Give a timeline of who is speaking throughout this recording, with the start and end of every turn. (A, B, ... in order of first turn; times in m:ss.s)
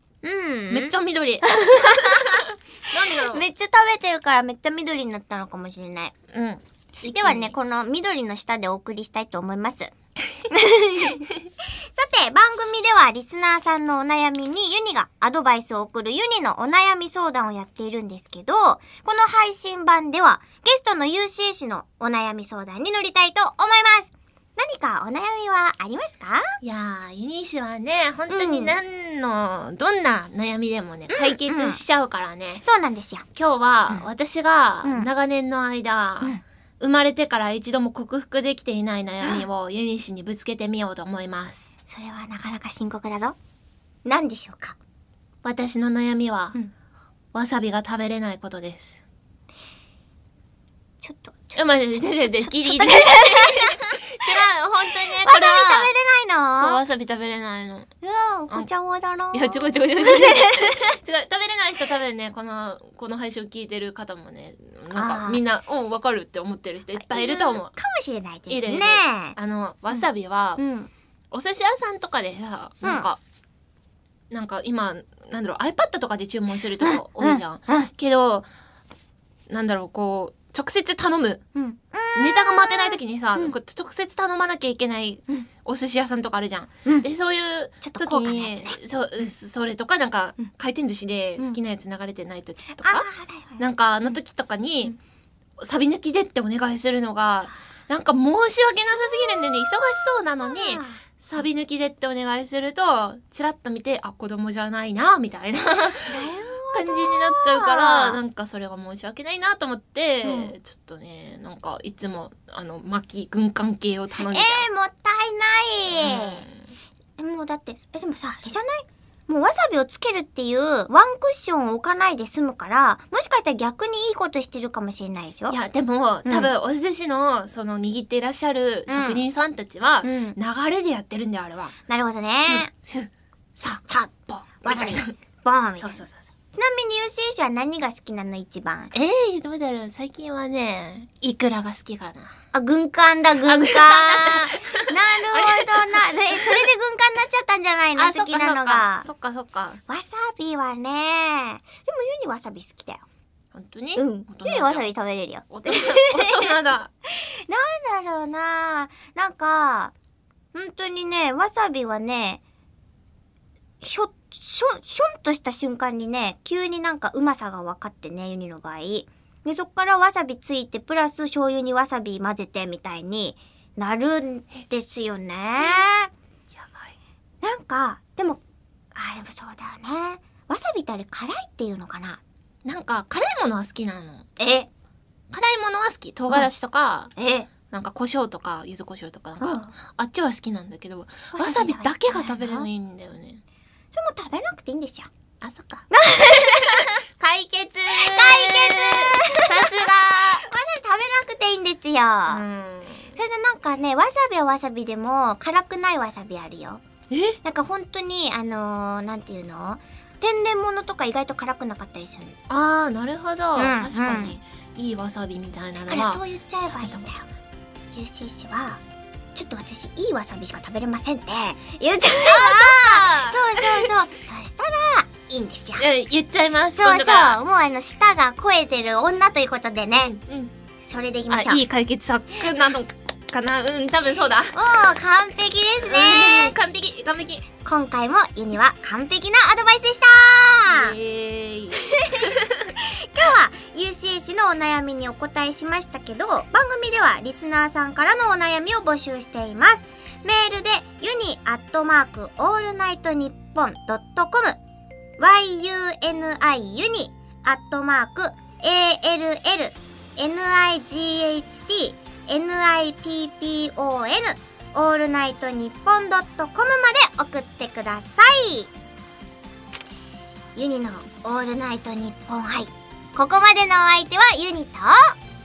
0:00.2-0:02.4 A
0:00.7-0:03.4 B
0:03.2-0:06.1 A
0:06.3-0:07.6 B
0:07.1-0:09.9 A
0:10.5-0:11.2 A
0:11.9-0:26.5 A
0:26.6-0:32.6 B
0:28.3-0:28.8 A
0:31.1-0:31.8 A
0:32.6-0:33.3 A
0:33.4-0:41.7 B
0:34.8-0:35.1 A
0:41.9-0:43.4 A
0:44.0-0:44.8 A
0:45.4-0:46.6 B
0:47.3-0:49.0 B
0:51.0-0:54.0 A
0:51.6-0:55.9 B
0:55.1-0:56.8 A
0:56.6-0:57.9 B
0:58.0-1:01.0 A
0:59.3-1:07.7 B
1:04.9-1:05.4 A
1:07.0-1:09.4 A
1:08.5-1:10.6 B
1:10.6-1:10.9 A
1:11.3-1:13.2 B
1:14.3-1:18.5 B
1:16.8-1:17.9 A
1:19.5-1:21.4 B
1:21.5-1:23.6 A
1:22.2-1:33.1 B
1:27.8-1:28.8 A
1:32.8-1:33.7 A
1:33.6-1:35.0 B
1:35.6-1:46.2 B
1:40.4-1:41.0 A
1:46.0-1:48.2 A
1:46.7-1:54.7 B
1:50.2-1:50.5 A
1:54.2-1:56.4 A
1:55.9-1:56.7 B
1:57.2-2:05.6 A
2:05.5-2:11.8 B
2:08.9-2:09.2 A
2:10.0-2:10.4 A
2:11.9-2:12.7 A
2:12.4-2:15.1 B
2:14.6-2:18.9 A
2:15.8-2:16.3 B
2:18.9-2:22.4 B
2:22.5-2:29.1 A
2:23.4-2:26.7 B
2:28.0-2:29.8 B
2:29.9-2:33.0 A
2:33.5-2:34.9 B
2:34.0-2:36.6 A
2:35.5-2:36.9 B
2:37.1-2:39.9 A
2:40.5-2:42.4 A
2:43.8-2:56.1 A
2:56.5-2:56.9 B
2:57.4-2:58.4 A
2:58.9-3:02.2 A
3:02.6-3:04.2 B
3:04.4-3:04.7 A
3:05.3-3:07.1 B
3:07.2-3:07.5 A
3:07.7-3:13.4 B
3:09.4-3:09.8 A
3:11.3-3:12.7 A
3:13.9-3:15.1 A
3:15.4-3:20.5 B
3:15.9-3:17.0 A
3:17.9-3:22.4 A
3:22.3-3:23.2 B
3:23.2-3:26.8 A
3:27.1-3:27.4 B
3:27.4-3:32.4 A
3:32.5-3:37.1 B
3:33.6-3:34.4 A
3:35.9-3:37.3 A
3:37.9-3:38.8 A
3:39.3-3:45.9 A
3:42.2-3:43.9 B
3:45.8-3:47.4 B
3:46.8-3:50.2 A
3:50.0-3:50.5 B
3:50.8-3:51.6 A
3:51.3-3:54.6 B
3:54.5-3:56.5 A
3:55.8-3:57.4 B
3:57.6-4:01.0 A
4:00.6-4:02.7 B
4:01.9-4:02.3 A
4:02.8-4:14.6 A
4:15.2-4:28.7 A
4:30.6-4:35.2 A